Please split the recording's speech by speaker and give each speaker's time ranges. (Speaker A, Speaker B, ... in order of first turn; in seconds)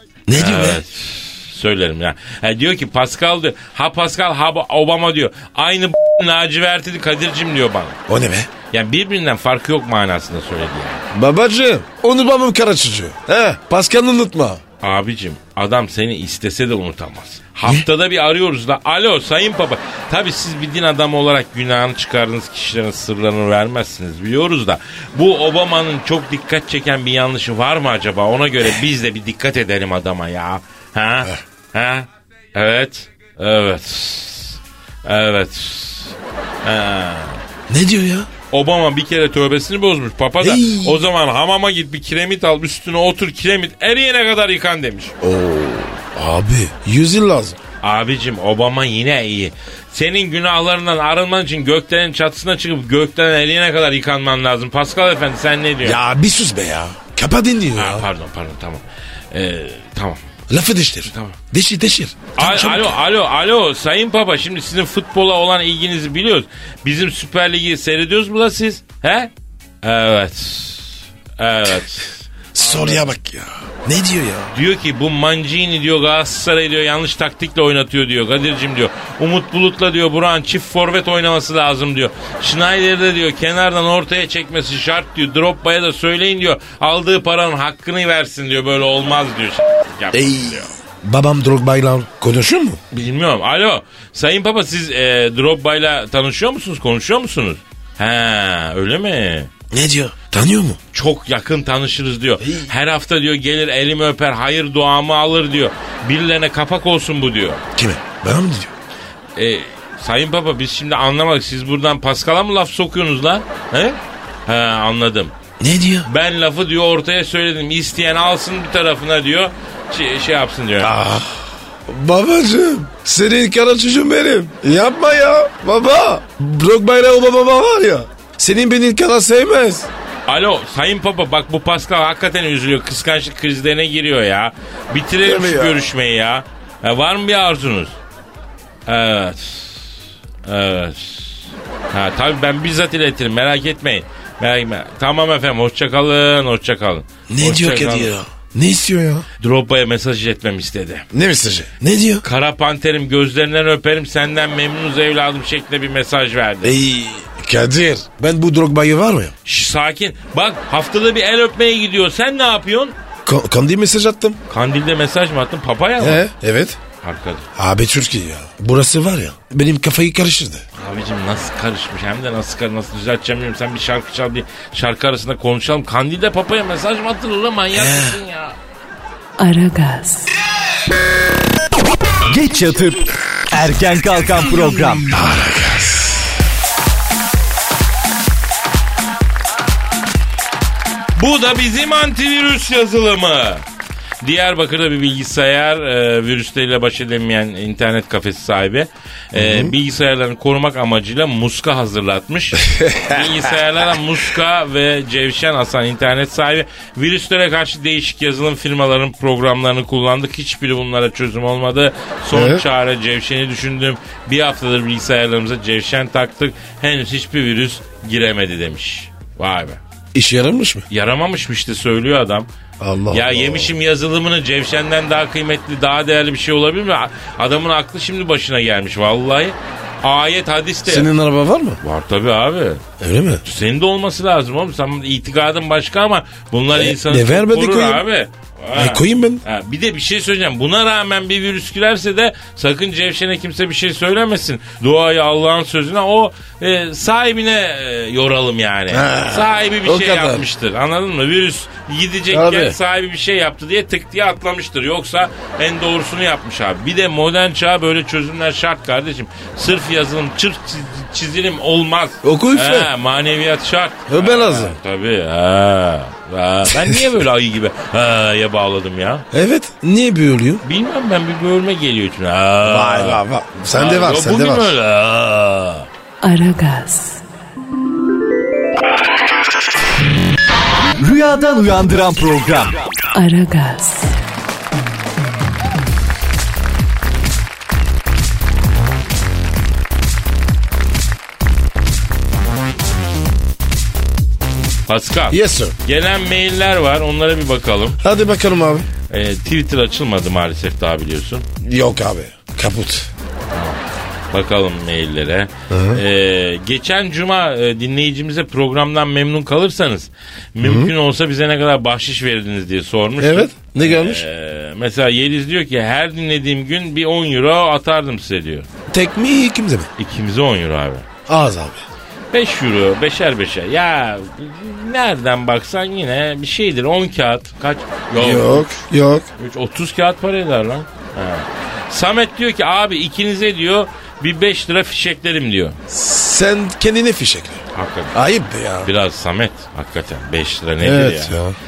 Speaker A: 0.3-0.8, 8.1-8.5, 11.1-14.6, 37.7-38.3, 40.4-41.0, 45.2-47.6, 55.8-58.1, 60.5-63.0, 72.5-74.5, 90.1-92.8, 99.7-100.8, 107.7-108.7, 115.6-116.1, 120.8-129.9, 135.2-135.9, 147.3-149.2, 151.1-152.2, 156.6-159.3, 163.2-164.4, 166.0-166.8, 167.6-170.6, 177.7-178.2, 185.1-186.3, 199.3-199.7, 202.6-203.2, 212.3-212.6, 220.1-220.8, 222.8-223.7, 230.8-231.8, 233.0-233.4, 236.7-238.0, 238.7-239.4, 248.9-250.4, 252.3-252.8, 262.2-262.9, 264.1-264.8, 269.3-270.6, 272.6-274.8, 295.3-295.7, 298.0-298.9, 301.6-303.1, 305.7-306.0, 310.6-310.9, 313.2-314.2, 318.9-319.9, 321.3-321.8, 328.1-329.2, 335.9-338.9, 340.8-341.6
Speaker B: 0.3-8.0, 8.7-11.1, 14.8-37.4, 38.5-45.1, 47.8-56.0, 57.8-60.2, 61.1-61.4, 62.4-69.3, 69.8-73.0, 74.5-90.7, 92.9-99.5, 100.9-107.6, 109.3-115.3, 116.0-120.9, 130.3-138.0, 138.9-139.9, 140.4-148.1, 149.4-151.1, 152.2-156.8, 159.4-162.9, 164.5-166.2, 167.0-167.5, 170.8-178.6, 191.2-193.6, 194.2-219.8, 220.9-222.5, 223.1-231.1, 231.8-232.8, 233.4-269.2, 270.6-273.2, 273.7-275.9, 294.9-298.0, 299.1-301.4, 303.5-303.8, 304.3-318.7, 320.0-321.1, 322.3-328.8, 329.4-335.8, 337.7-338.1, 338.8-341.4
Speaker C: 179.4-180.3, 276.2-277.2, 283.1-284.1
Speaker D: 182.3-185.2, 281.0-282.8